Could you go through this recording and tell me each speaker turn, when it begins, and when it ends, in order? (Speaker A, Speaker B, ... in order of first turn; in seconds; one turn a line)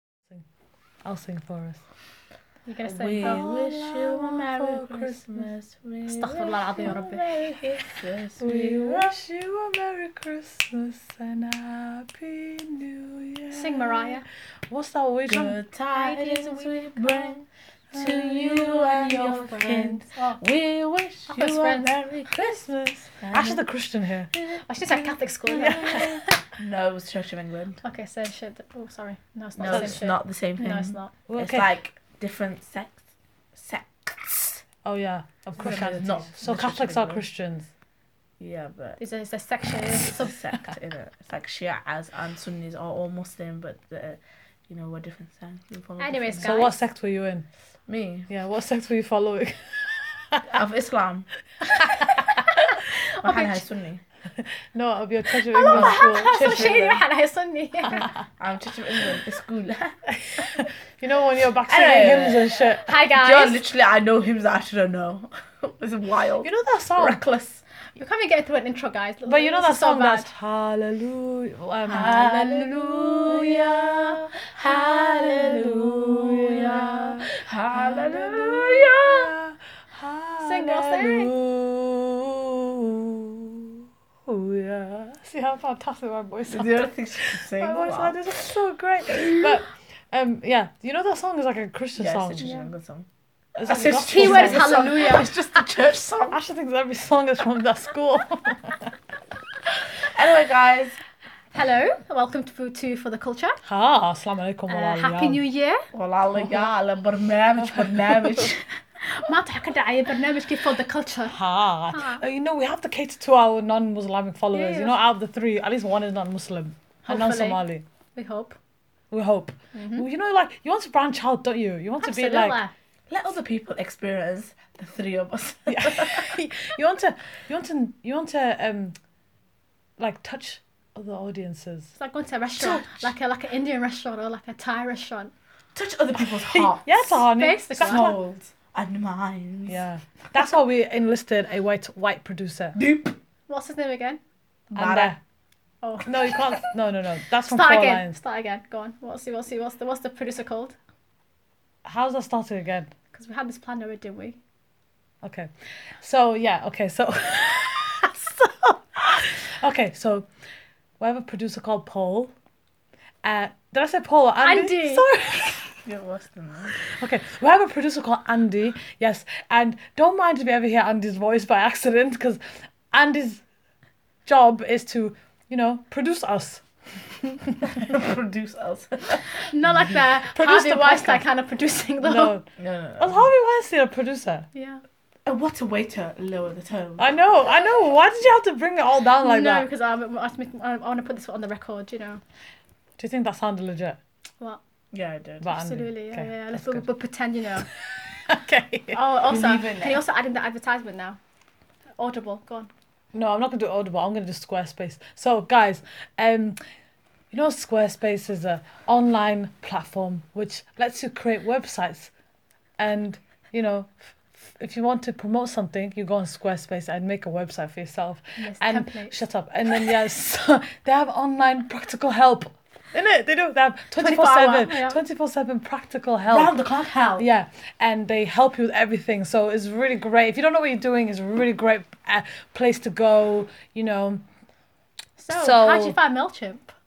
Speaker A: 1.0-1.8
Speaker B: 2.7-3.4
Speaker C: 2.8-9.2
Speaker A: 3.2-5.5
Speaker B: 6.1-7.2
Speaker A: 8.4-15.6
Speaker B: 13.5-14.2
Speaker C: 15.3-22.3
Speaker B: 15.9-17.2
Speaker A: 17.9-18.6
Speaker B: 18.7-20.4
Speaker B: 21.3-21.9
Speaker A: 22.3-24.3
Speaker C: 23.2-23.6
Speaker B: 24.4-26.3
Speaker A: 24.9-26.2
Speaker C: 26.6-27.8
Speaker B: 27.8-31.1
Speaker C: 29.6-33.0
Speaker A: 29.7-29.9
Speaker A: 31.3-31.6
Speaker C: 33.5-34.6
Speaker A: 34.8-37.7
Speaker C: 35.6-37.2
Speaker B: 35.6-36.0
Speaker C: 38.4-39.0
Speaker B: 39.0-40.3
Speaker C: 39.9-46.6
Speaker B: 46.0-46.7
Speaker A: 46.4-47.5
Speaker C: 47.9-48.3
Speaker A: 48.3-50.6
Speaker C: 50.5-51.3
Speaker B: 51.8-53.6
Speaker C: 53.2-54.0
Speaker A: 54.4-56.9
Speaker B: 55.5-58.1
Speaker C: 55.7-57.0
Speaker C: 58.4-60.0
Speaker A: 60.1-62.9
Speaker C: 61.7-62.6
Speaker B: 62.8-63.6
Speaker C: 63.1-67.6
Speaker A: 66.4-67.2
Speaker B: 68.0-70.3
Speaker A: 69.2-73.4
Speaker C: 71.9-79.3
Speaker B: 71.9-72.3
Speaker A: 74.6-92.5
Speaker B: 80.4-81.3
Speaker C: 86.5-88.2
Speaker C: 89.1-89.5
Speaker C: 92.0-93.1
Speaker B: 92.4-92.7
Speaker A: 93.6-95.0
Speaker C: 93.6-96.4
Speaker B: 93.7-95.3
Speaker A: 96.3-98.9
Speaker C: 100.0-101.0
Speaker B: 101.5-103.6
Speaker A: 103.6-105.4
Speaker B: 104.7-105.8
Speaker C: 105.9-108.6
Speaker A: 107.8-108.5
Speaker B: 109.0-111.4
Speaker A: 111.3-117.8
Speaker B: 111.9-112.2
Speaker B: 114.5-115.0
Speaker B: 117.0-117.6
Speaker B: 118.2-118.6
Speaker A: 119.1-122.6
Speaker B: 119.7-120.0
Speaker B: 122.0-122.7
Speaker C: 123.1-126.3
Speaker A: 125.7-128.9
Speaker A: 130.0-131.9
Speaker B: 131.9-135.3
Speaker A: 132.6-133.1
Speaker C: 135.7-137.2
Speaker A: 136.3-138.2
Speaker B: 137.3-138.1
Speaker C: 137.8-139.8
Speaker A: 139.7-142.8
Speaker C: 142.7-143.2
Speaker B: 143.5-144.2
Speaker A: 144.7-145.2
Speaker C: 144.7-145.2
Speaker B: 145.8-146.1
Speaker A: 146.0-148.2
Speaker B: 147.5-150.8
Speaker A: 151.8-152.9
Speaker B: 153.1-154.4
Speaker A: 155.2-155.5
Speaker A: 156.0-160.3
Speaker A: 161.0-162.3
Speaker A: 163.2-165.7
Speaker B: 164.4-165.1
Speaker C: 165.8-166.7
Speaker A: 166.8-172.4
Speaker A: 172.9-173.4
Speaker A: 174.2-176.6
Speaker A: 177.2-177.6
Speaker C: 177.6-179.2
Speaker B: 179.5-182.3
Speaker A: 180.3-181.2
Speaker A: 182.0-184.5
Speaker C: 182.6-183.3
Speaker B: 184.5-184.8
Speaker C: 185.2-187.2
Speaker A: 187.0-189.7
Speaker B: 189.2-192.2
Speaker A: 193.0-194.0
Speaker C: 194.9-195.5
Speaker A: 195.4-196.8
Speaker B: 195.5-197.7
Speaker A: 198.2-199.0
Speaker B: 198.9-201.2
Speaker C: 199.2-200.0
Speaker B: 202.0-202.7
Speaker A: 203.1-206.6
Speaker A: 207.3-212.1
Speaker A: 212.8-226.5
Speaker B: 218.4-219.1
Speaker B: 223.9-225.0
Speaker C: 226.3-227.2
Speaker A: 227.2-234.2
Speaker B: 235.2-236.7
Speaker A: 235.3-235.9